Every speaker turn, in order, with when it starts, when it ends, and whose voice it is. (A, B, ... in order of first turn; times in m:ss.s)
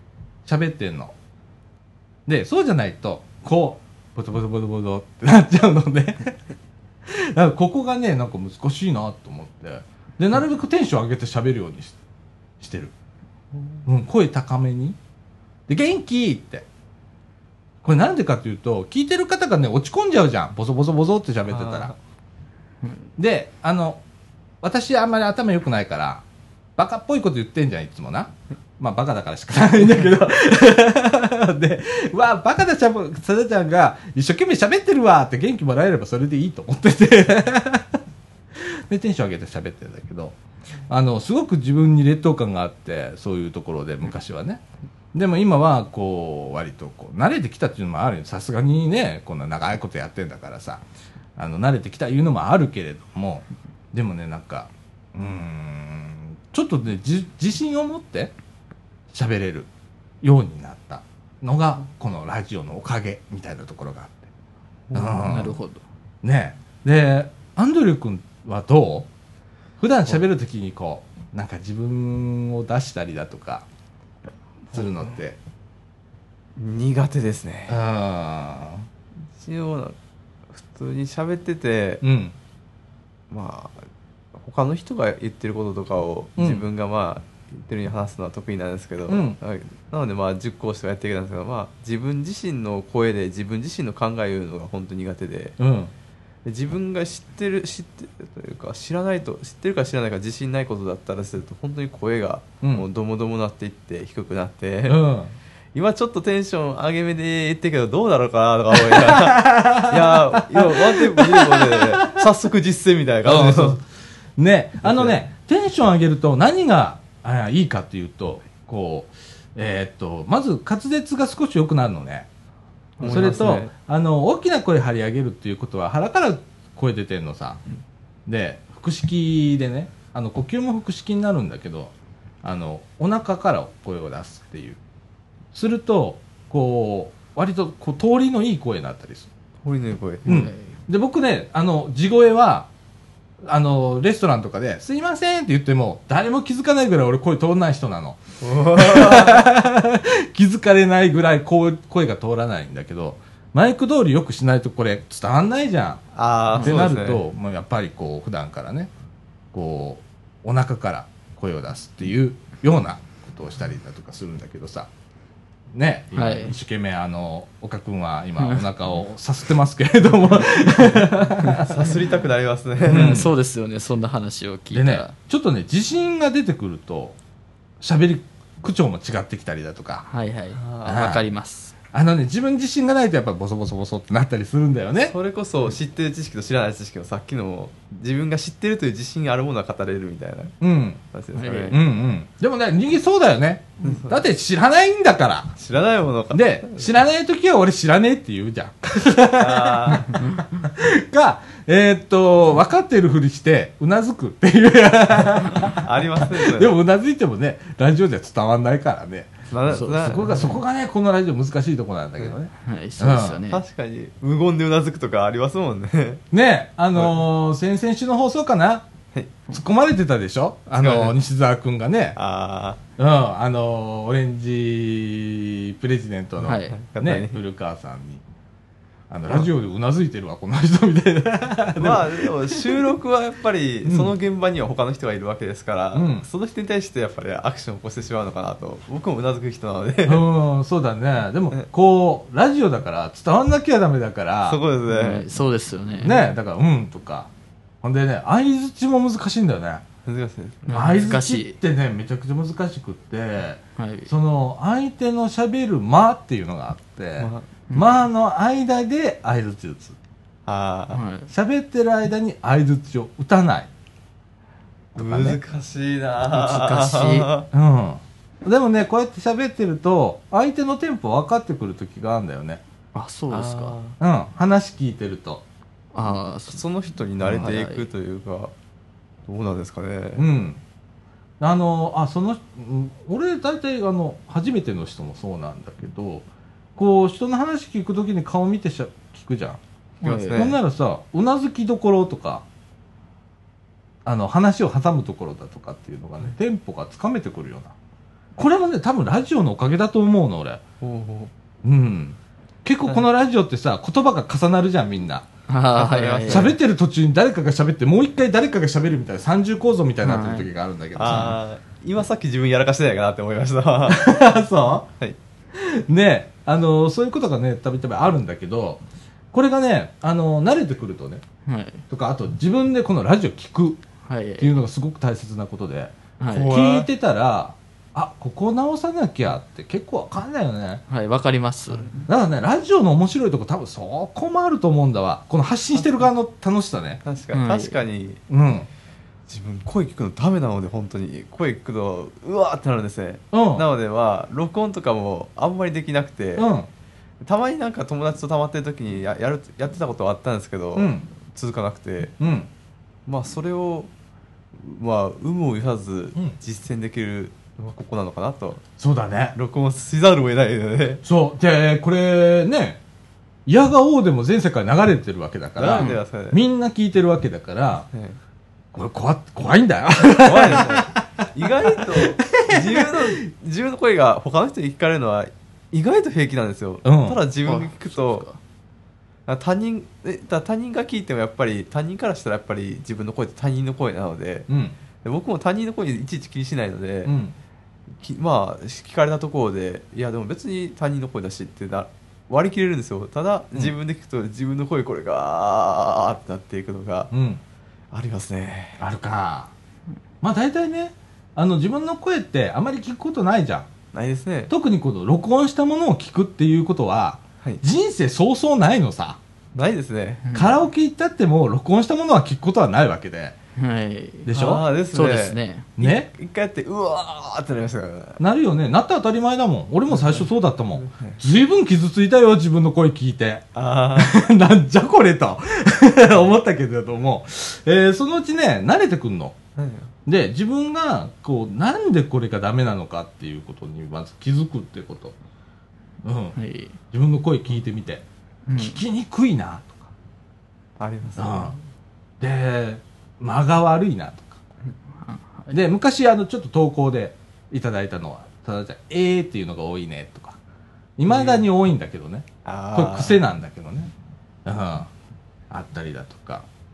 0:00.5-0:01.1 A
0:02.3-0:06.4 A
0:07.1-0:12.0 A
0:12.6-0:12.9 A
0:13.9-0:15.0 A
0:15.7-0:16.7 A
0:17.8-0:21.9 A
0:21.5-0:22.0 B
0:23.2-0:24.0 A
0:24.6-0:26.2 A
0:26.8-0:38.0 A
0:38.6-0:40.4 A
0:40.9-0:44.6 A
0:45.1-0:50.8 A
0:51.4-0:58.3 A
0:59.1-0:59.7 A
1:00.2-1:04.3 A
1:04.9-1:05.3 B
1:04.9-1:05.6 A
1:05.2-1:05.8 C
1:06.2-1:09.1 A
1:09.8-1:13.6 A
1:14.7-1:15.4 A
1:16.6-1:17.8 B
1:17.7-1:18.9 A
1:19.4-1:20.0 B
1:20.5-1:22.0 B
1:22.0-1:22.4 A
1:23.3-1:23.8 B
1:24.4-1:35.6 B
1:26.4-1:26.6 A
1:29.1-1:29.4 A
1:35.6-1:35.9 A
1:36.4-1:45.0 B
1:44.9-1:45.3 A
1:45.8-1:53.8 B
1:48.7-1:52.3 A
1:53.2-1:53.8 A
1:54.4-2:02.3 A
1:54.8-1:55.2 B
2:03.0-2:03.7 B
2:03.0-2:03.4 C
2:03.0-2:07.6 A
2:08.3-2:14.8 A
2:15.5-2:19.3 A
2:19.6-2:20.3 B
2:20.3-2:20.6 C
2:20.3-2:22.7 A
2:23.4-2:28.2 A
2:28.4-2:29.5 B
2:28.7-2:36.0 A
2:36.2-2:37.2 B
2:36.6-2:38.9 A
2:39.5-2:44.9 A
2:45.7-2:51.9 A
2:46.2-2:46.5 C
2:48.4-2:48.7 C
2:51.6-2:53.2 B
2:52.9-2:55.1 C
2:52.9-2:53.3 A
2:54.7-2:57.2 A
2:57.8-3:00.1 A
3:00.1-3:01.7 C
3:00.5-3:01.1 B
3:00.9-3:01.2 A
3:01.9-3:05.1 A
3:05.0-3:10.6 B
3:10.6-3:11.0 A
3:11.1-3:11.8 B
3:11.4-3:11.8 C
3:11.7-3:15.5 A
3:13.8-3:14.2 B
3:15.6-3:16.9 B
3:16.3-3:33.4 A
3:19.4-3:20.2 B
3:25.7-3:26.8 B
3:29.5-3:30.6 B
3:29.7-3:30.5 C
3:32.6-3:33.6 C
3:33.5-3:36.2 B
3:36.3-3:38.9 A
3:39.5-3:42.2 A
3:40.8-3:41.2 B
3:42.2-3:42.8 B
3:43.0-3:48.2 A
3:46.4-3:46.7 C
3:46.5-3:47.4 B
3:49.1-3:52.9 A
3:51.8-4:00.3 B
3:53.8-3:54.1 A
3:55.9-3:56.3 A
4:00.0-4:04.6 A
4:04.5-4:05.3 B
4:04.9-4:06.2 C
4:06.0-4:07.3 A
4:07.8-4:09.8 A
4:10.1-4:10.9 B
4:10.7-4:11.6 C
4:10.7-4:20.0 A
4:13.8-4:14.1 C
4:17.2-4:17.5 B
4:20.5-4:21.0 B
4:20.9-4:21.3 C
4:21.3-4:23.7 A
4:25.0-4:25.4 A
4:25.0-4:27.5 B
4:26.3-4:27.3 C
4:27.5-4:32.6 A
4:32.9-4:33.8 C
4:33.3-4:34.0 B
4:34.0-4:35.4 A
4:35.9-4:36.6 C
4:36.5-4:38.5 B
4:37.2-4:37.9 C
4:39.3-4:40.3 B
4:40.2-4:40.6 A
4:41.4-4:49.6 A
4:50.0-4:50.5 C
4:50.0-4:50.6 B
4:50.3-4:52.4 A
4:54.0-4:57.7 A
4:58.4-5:00.6 A
5:00.8-5:01.3 B
5:01.6-5:05.3 A
5:05.5-5:06.5 C
5:05.7-5:06.6 B
5:06.3-5:11.4 A
5:10.0-5:10.5 C
5:11.0-5:14.1 B
5:11.1-5:11.3 C
5:13.9-5:14.9 A
5:15.6-5:18.8 A
5:19.3-5:21.2 A
5:21.5-5:21.8 C
5:21.9-5:23.8 A
5:24.1-5:24.5 C
5:24.4-5:30.8 A
5:26.2-5:26.5 C
5:26.3-5:26.9 B
5:30.9-5:32.0 C
5:32.1-5:37.0 A
5:37.0-5:38.2 B
5:37.3-5:37.8 C
5:38.3-5:38.7 A
5:39.3-5:46.5 B
5:43.3-5:43.6 A
5:46.4-5:46.7 A
5:47.2-5:52.1 B
5:50.8-5:51.1 A
5:52.2-5:52.5 A
5:53.1-5:53.9 B
5:54.6-5:58.6 B
5:58.8-5:59.4 A
5:59.4-6:01.0 B
6:01.0-6:02.8 A
6:03.5-6:07.9 A
6:05.6-6:06.4 B
6:07.9-6:08.2 B
6:08.7-6:11.2 A
6:10.2-6:18.2 B
6:11.8-6:13.1 A
6:16.8-6:17.2 A
6:17.4-6:18.4 C
6:19.3-6:24.5 B
6:24.5-6:24.8 A
6:25.0-6:27.1 B
6:27.1-6:27.4 A
6:28.0-6:37.1 B
6:37.1-6:37.4 A
6:37.9-6:38.8 B
6:38.8-6:39.5 A
6:40.2-6:43.7 A
6:43.9-6:44.5 B
6:44.5-6:49.2 A
6:49.6-6:50.2 B
6:50.3-6:50.6 C
6:50.3-6:53.4 A
6:53.6-6:54.3 C
6:54.2-6:54.6 A
6:54.3-6:58.2 B
6:54.9-6:55.7 C
6:55.8-6:56.1 A
6:58.2-7:03.4 A
6:59.9-7:00.2 B
7:00.8-7:01.2 B
7:03.6-7:04.2 B
7:04.0-7:09.4 A
7:09.6-7:09.9 B
7:10.1-7:15.2 A
7:16.0-7:16.4 A
7:16.4-7:16.8 C
7:16.9-7:18.0 A
7:18.5-7:18.8 C
7:18.6-7:19.9 A
7:20.8-7:21.6 B
7:21.2-7:21.6 A
7:22.2-7:24.4 A
7:25.1-7:25.5 C
7:25.5-7:30.4 A
7:31.0-7:33.9 A
7:31.1-7:31.4 B
7:32.4-7:33.2 B
7:34.4-7:34.9 A
7:35.5-7:36.5 A